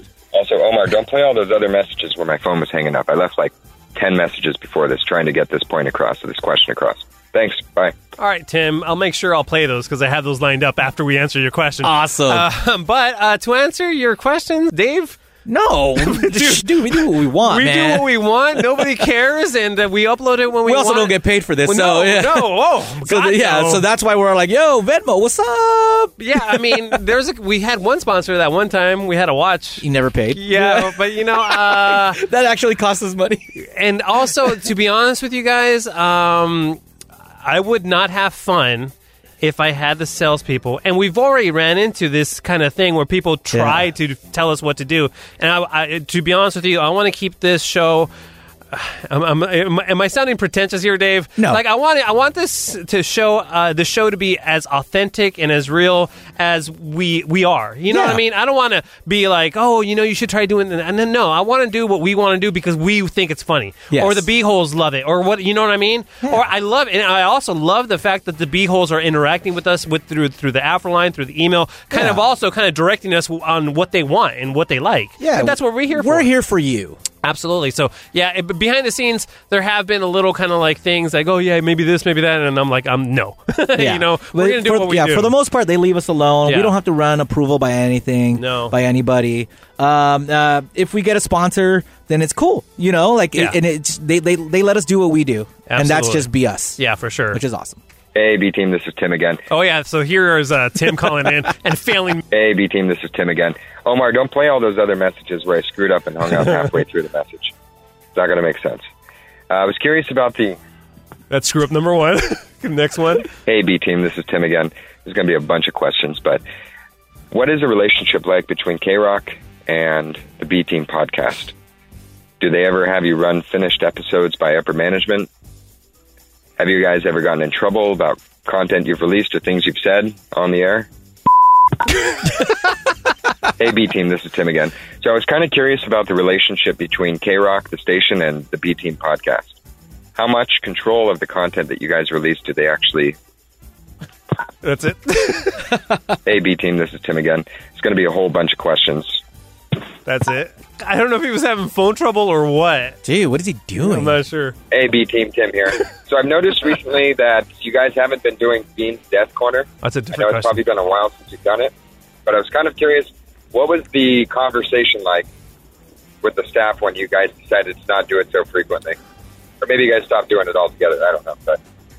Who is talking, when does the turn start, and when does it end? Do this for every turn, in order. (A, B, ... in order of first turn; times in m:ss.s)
0:00.3-0:08.0 A
0:08.2-0:15.2 B
0:11.8-0:12.5 C
0:15.5-0:18.9 C
0:16.0-0:23.8 B
0:20.6-0:27.0 C
0:26.2-0:32.2 B
0:29.8-0:33.6 C
0:33.7-0:36.8 B
0:37.4-0:48.1 B
0:43.5-0:43.9 C
0:48.7-1:16.3 B
0:51.4-0:51.6 C
0:57.9-0:58.2 C
1:03.9-1:04.3 C
1:11.9-1:12.2 C
1:15.2-1:17.0 C
1:17.2-1:25.3 B
1:23.8-1:36.8 C
1:26.5-1:26.8 B
1:28.4-1:28.8 B
1:35.7-1:37.4 B
1:37.3-1:37.8 C
1:38.2-1:39.4 A
1:39.5-1:42.2 B
1:42.3-1:47.5 A
1:48.2-1:48.9 A
1:49.5-1:50.6 A
1:51.3-1:53.3 B
1:53.5-1:56.4 A
1:57.3-2:01.5 A
2:02.4-2:05.3 A
2:06.6-2:10.9 A
2:13.6-2:19.6 A
2:20.2-2:23.2 A
2:24.6-2:25.7 B
2:26.3-2:29.2 A
2:30.0-2:33.0 B
2:33.0-2:34.2 C
2:33.8-2:34.6 B
2:34.7-2:41.7 A
2:39.8-2:40.6 B
2:42.3-2:45.3 A
2:46.2-2:49.0 A
2:49.6-2:51.6 A